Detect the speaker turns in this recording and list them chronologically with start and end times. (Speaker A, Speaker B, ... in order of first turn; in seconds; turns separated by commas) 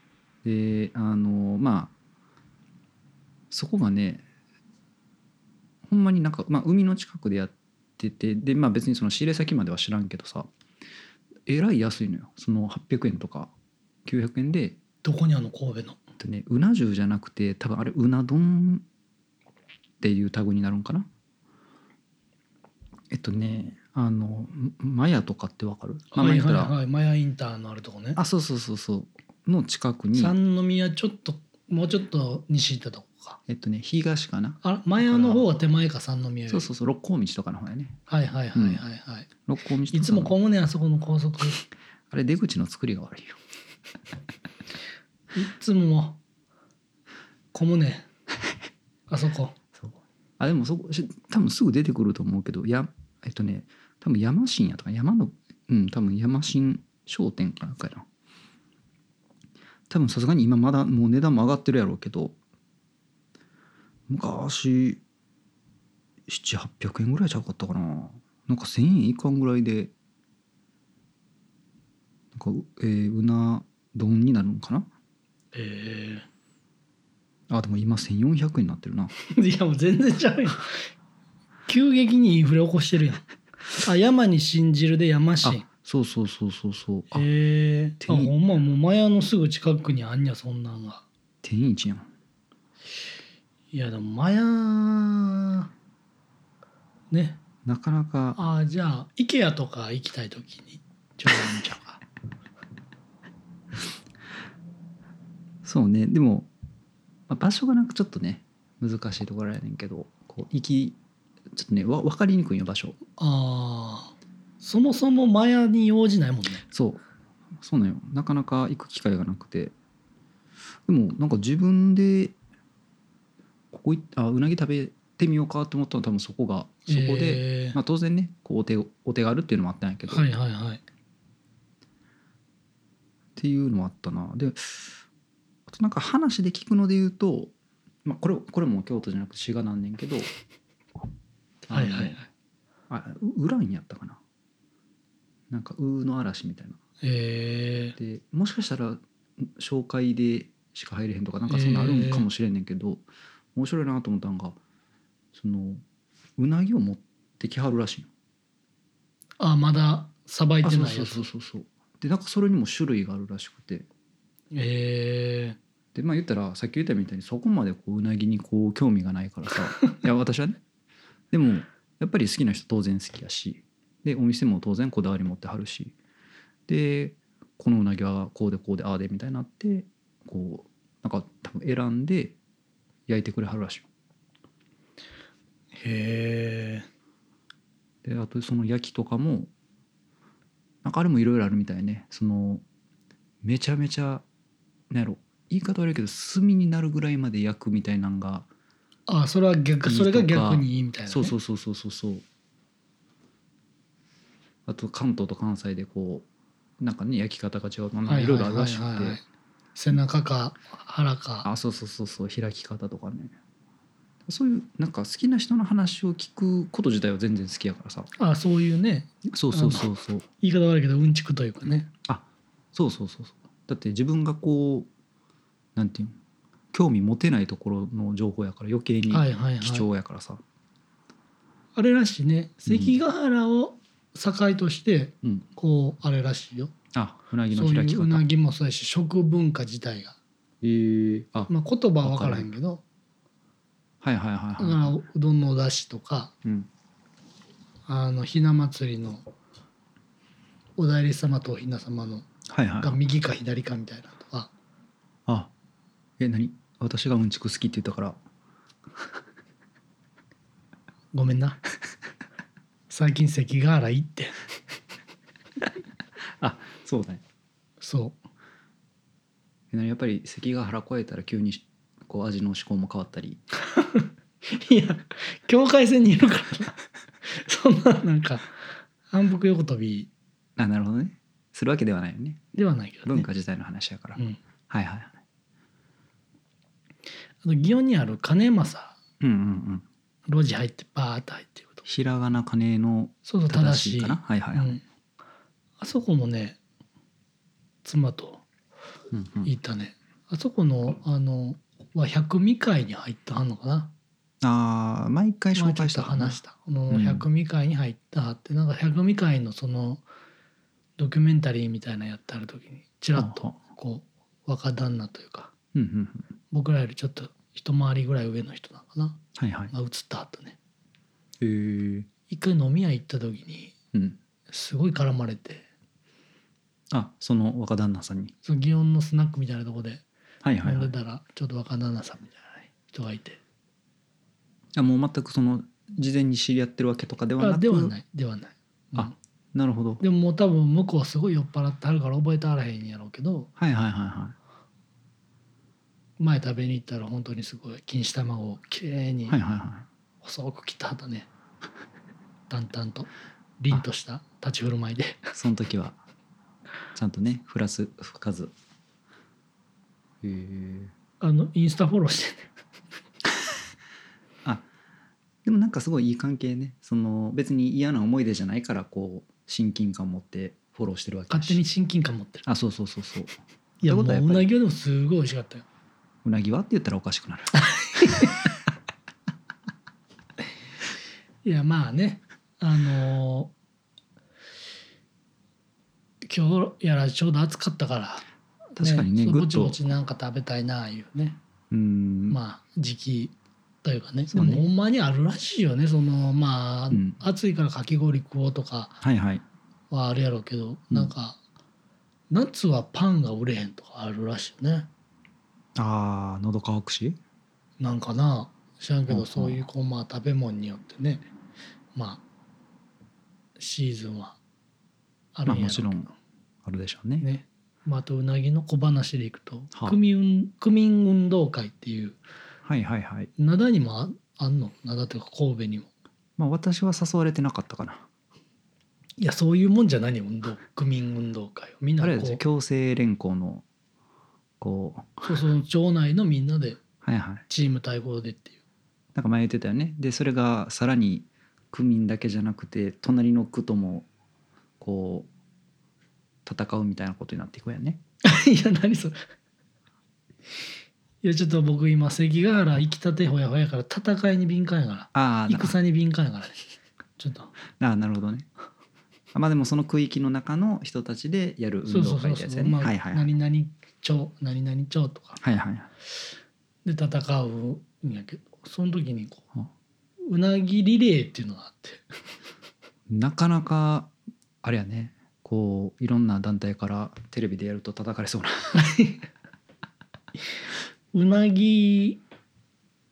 Speaker A: 0.4-1.9, Speaker A: 3.5-4.2, Speaker A: 5.8-10.5, Speaker A: 11.4-13.5, Speaker A: 14.0-14.8, Speaker B: 15.0-16.0, Speaker A: 16.2-18.8, Speaker A: 20.0-21.1, Speaker A: 23.1-26.7, Speaker B: 26.1-28.2, Speaker A: 28.1-30.3, Speaker B: 30.1-33.4, Speaker A: 33.5-35.5, Speaker B: 34.6-36.7, Speaker A: 36.5-38.0, Speaker B: 38.1-39.3, Speaker A: 38.5-38.8, Speaker A: 39.5-40.3, Speaker B: 39.9-41.6, Speaker A: 42.1-43.4, Speaker B: 45.3-46.2, Speaker B: 47.5-48.1, Speaker B: 49.1-49.6, Speaker A: 49.8-58.0, Speaker A: 59.9-62.4, Speaker A: 64.1-65.0, Speaker A: 66.3-69.9, Speaker A: 72.3-74.9, Speaker B: 75.5-76.2, Speaker A: 77.5-79.1, Speaker B: 79.3-80.9, Speaker B: 81.7-83.2, Speaker B: 83.8-85.6, Speaker A: 85.4-87.2, Speaker B: 87.1-91.0, Speaker A: 88.0-88.3, Speaker A: 91.4-92.1, Speaker B: 93.7-95.7, Speaker B: 97.1-97.4, Speaker A: 97.6-98.4, Speaker B: 98.4-102.0, Speaker A: 105.6-106.5, Speaker A: 107.3-111.0, Speaker A: 111.5-113.0, Speaker B: 113.2-116.6, Speaker A: 116.7-117.0, Speaker A: 117.6-119.7, Speaker A: 120.9-122.3, Speaker A: 123.7-130.2, Speaker B: 126.9-127.8, Speaker B: 130.1-130.8, Speaker A: 133.3-135.0, Speaker A: 135.7-137.5, Speaker A: 138.0-140.3, Speaker A: 141.7-142.2, Speaker B: 141.7-142.3, Speaker A: 142.9-144.2, Speaker A: 145.5-146.8, Speaker B: 147.0-148.0, Speaker A: 148.0-153.0, Speaker B: 151.5-152.2, Speaker A: 153.5-154.6, Speaker A: 155.3-155.8, Speaker A: 156.4-158.1, Speaker B: 159.4-161.2, Speaker A: 160.6-163.9, Speaker B: 164.5-165.6, Speaker A: 165.9-170.6, Speaker A: 171.3-175.9, Speaker A: 176.7-182.3, Speaker A: 183.1-183.9, Speaker B: 185.7-186.9, Speaker A: 188.0-189.5, Speaker A: 190.8-192.6, Speaker A: 193.4-194.2, Speaker A: 194.9-198.5, Speaker B: 199.1-201.3, Speaker A: 199.8-202.2, Speaker A: 204.7-206.2, Speaker A: 206.8-209.2, Speaker B: 208.1-209.2, Speaker B: 209.8-211.5, Speaker A: 211.4-213.3, Speaker A: 214.2-218.1, Speaker B: 218.2-221.9, Speaker A: 219.3-220.2, Speaker A: 222.1-224.9, Speaker A: 225.8-226.2, Speaker A: 226.7-230.4, Speaker B: 229.1-229.8, Speaker B: 231.8-236.7, Speaker A: 232.7-232.9, Speaker A: 236.9-238.2, Speaker B: 237.5-240.2, Speaker A: 240.6-241.5, Speaker B: 241.5-242.8, Speaker A: 242.0-242.5, Speaker A: 244.0-244.9, Speaker B: 244.6-246.3, Speaker A: 246.4-246.7, Speaker B: 247.9-249.2, Speaker B: 250.8-252.3, Speaker A: 252.5-252.9, Speaker B: 252.8-254.5, Speaker A: 256.2-258.2, Speaker B: 261.1-261.6, Speaker B: 262.9-264.4, Speaker A: 266.4-267.2, Speaker B: 267.8-268.2, Speaker A: 269.7-273.4, Speaker B: 273.7-280.1, Speaker A: 280.6-282.4, Speaker B: 282.5-283.3, Speaker A: 283.1-285.2, Speaker B: 287.4-289.0, Speaker A: 289.2-289.8, Speaker B: 290.3-291.8, Speaker A: 291.8-294.8, Speaker B: 293.2-294.8, Speaker B: 295.8-296.6, Speaker B: 297.8-298.4, Speaker A: 299.1-299.5, Speaker B: 299.4-303.9, Speaker A: 304.4-307.2, Speaker B: 305.5-310.0, Speaker B: 311.0-315.5, Speaker A: 313.1-313.6, Speaker A: 315.7-316.3, Speaker B: 316.5-320.6, Speaker A: 319.4-319.7, Speaker A: 321.4-322.1, Speaker B: 322.3-323.7, Speaker A: 323.9-324.2, Speaker B: 324.5-325.6, Speaker A: 326.9-328.3, Speaker B: 328.4-330.0, Speaker A: 330.4-330.9, Speaker B: 330.6-333.4, Speaker A: 334.7-337.9, Speaker B: 337.4-339.1, Speaker A: 338.9-340.0, Speaker B: 340.0-343.5, Speaker A: 343.6-344.4, Speaker B: 346.2-349.4, Speaker A: 349.3-349.9, Speaker B: 350.2-351.3, Speaker B: 352.5-355.3, Speaker A: 355.3-356.0, Speaker A: 356.9-358.5, Speaker A: 360.2-360.9, Speaker B: 361.2-362.5, Speaker A: 365.4-371.6, Speaker B: 371.3-372.4, Speaker A: 372.4-374.5, Speaker B: 373.8-375.6, Speaker A: 376.2-378.4, Speaker B: 377.6-378.5, Speaker B: 381.4-383.5, Speaker B: 386.2-388.2, Speaker B: 388.8-391.4, Speaker A: 388.8-389.8, Speaker A: 391.7-392.4, Speaker B: 392.3-399.0, Speaker A: 394.3-394.6, Speaker A: 396.9-397.2, Speaker A: 399.0-399.4, Speaker B: 399.9-401.4, Speaker B: 402.3-404.9, Speaker A: 405.8-407.2, Speaker B: 407.8-411.2, Speaker A: 409.1-409.6, Speaker B: 411.9-412.2, Speaker B: 413.6-414.4, Speaker B: 415.3-416.1, Speaker A: 415.4-416.1, Speaker A: 416.6-417.2, Speaker B: 417.2-422.2, Speaker A: 422.6-423.3, Speaker B: 423.4-425.9, Speaker A: 426.4-428.1, Speaker B: 429.2-432.4, Speaker A: 432.0-433.6, Speaker A: 434.6-435.3, Speaker B: 435.2-436.8, Speaker A: 437.0-437.4, Speaker B: 437.5-438.6, Speaker A: 439.1-444.1, Speaker A: 444.8-445.3, Speaker A: 446.4-448.0, Speaker B: 448.2-449.2, Speaker B: 451.2-456.6, Speaker A: 455.1-455.7, Speaker B: 457.2-457.5, Speaker A: 457.8-458.5, Speaker A: 459.3-463.2, Speaker B: 461.9-465.4, Speaker A: 465.4-465.9, Speaker B: 466.8-469.4, Speaker B: 470.2-472.0, Speaker A: 473.1-474.1, Speaker A: 474.6-478.8, Speaker B: 478.7-479.2, Speaker B: 481.1-482.2